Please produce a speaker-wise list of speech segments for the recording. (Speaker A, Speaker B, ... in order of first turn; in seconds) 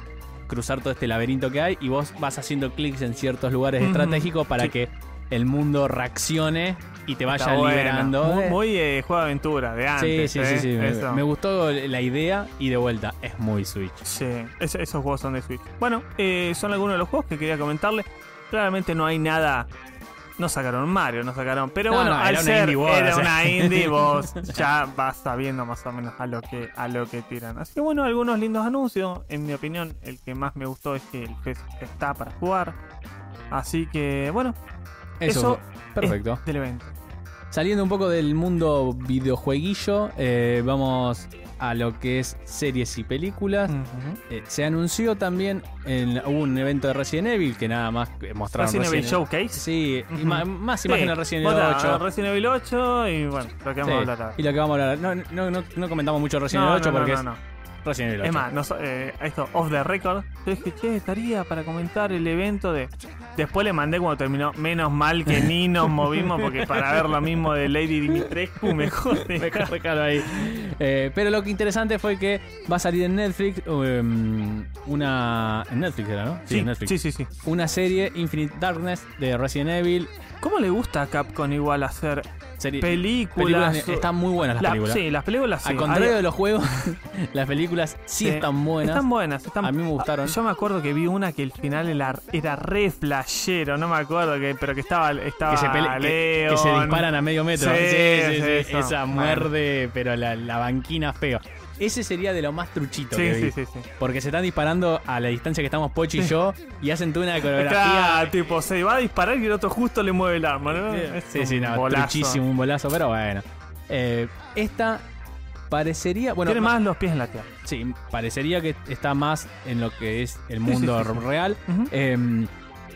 Speaker A: 0.5-8.6, 9.9-14.0, 21.9-24.6, 35.2-36.4, 37.5-43.7, 44.3-52.0, 53.8-57.2, 57.8-58.5, 66.0-67.3, 68.1-80.1, 82.6-85.0, 85.6-89.0, 89.6-90.4, 95.5-108.3, 110.7-115.0, 115.7-116.7, 117.6-122.5
Speaker B: 3.8-4.7, 7.3-11.2, 14.0-19.7, 20.4-32.8, 33.5-34.5, 35.2-36.9, 43.7-44.2, 48.5-54.4, 56.5-57.4, 58.2-69.7, 76.5-77.3, 80.4-82.3, 82.8-86.2, 88.2-99.5, 103.1-103.9, 107.4-112.4, 116.5-117.5, 120.7-121.9